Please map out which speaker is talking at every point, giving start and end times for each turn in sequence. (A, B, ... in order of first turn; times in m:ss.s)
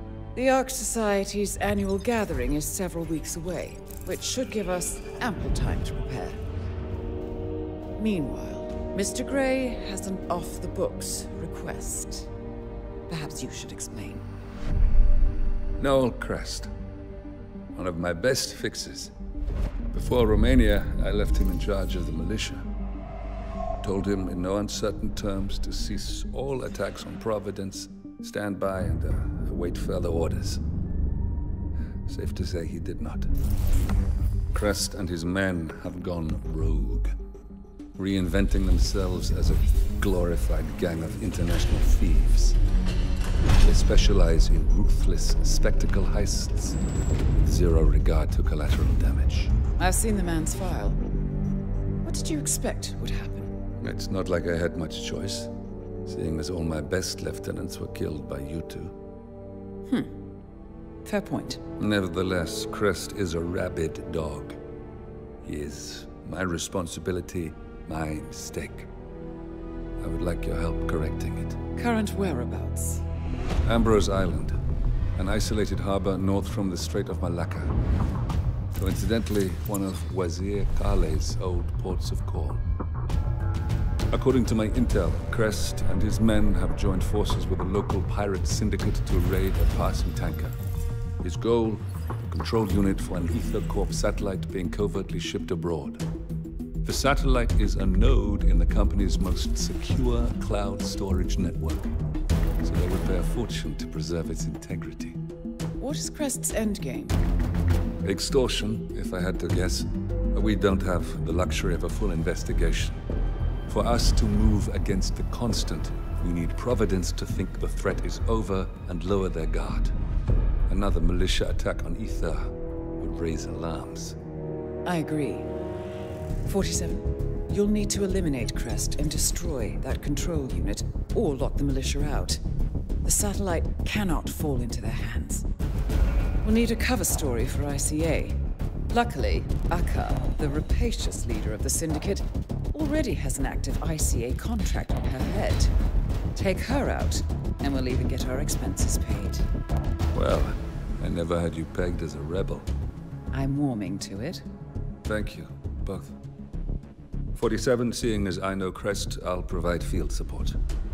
0:00.3-0:06.4 A
0:08.0-0:12.3 A
0:13.1-0:14.3 A
0:15.8-0:16.7 B
0:17.7-0:19.1 B
0:19.9-0:22.7 B
0:23.8-0:30.6 B
0:32.1-0:33.3 B
0:34.5-0:37.2 B
0:38.0-0:42.6 B
0:43.6-0:46.8 B
0:47.4-0:49.5 B
0:49.8-0:51.0 A
0:52.0-0:53.6 A
0:53.8-0:55.5 B
0:56.1-0:59.0 B
0:59.9-1:00.2 A
1:01.0-1:01.6 A
1:01.8-1:04.6 B
1:05.4-1:08.9 B
1:10.0-1:11.6 B
1:11.8-1:13.0 A
1:13.6-1:14.6 B
1:15.2-1:17.8 B
1:18.7-1:22.6 B
1:24.1-1:30.6 B
1:31.2-1:36.0 B
1:36.8-1:42.0 B
1:42.6-1:45.2 B
1:45.8-1:47.2 A
1:48.0-1:53.0 B
1:53.7-2:00.0 B
2:00.7-2:04.2 B
2:04.8-2:05.5 A
2:06.5-2:12.4 A
2:13.0-2:15.5 A
2:16.4-2:25.7 A
2:26.4-2:29.5 A
2:30.1-2:32.7 B
2:33.3-2:34.4 A
2:35.0-2:36.2 B
2:37.4-2:40.6 B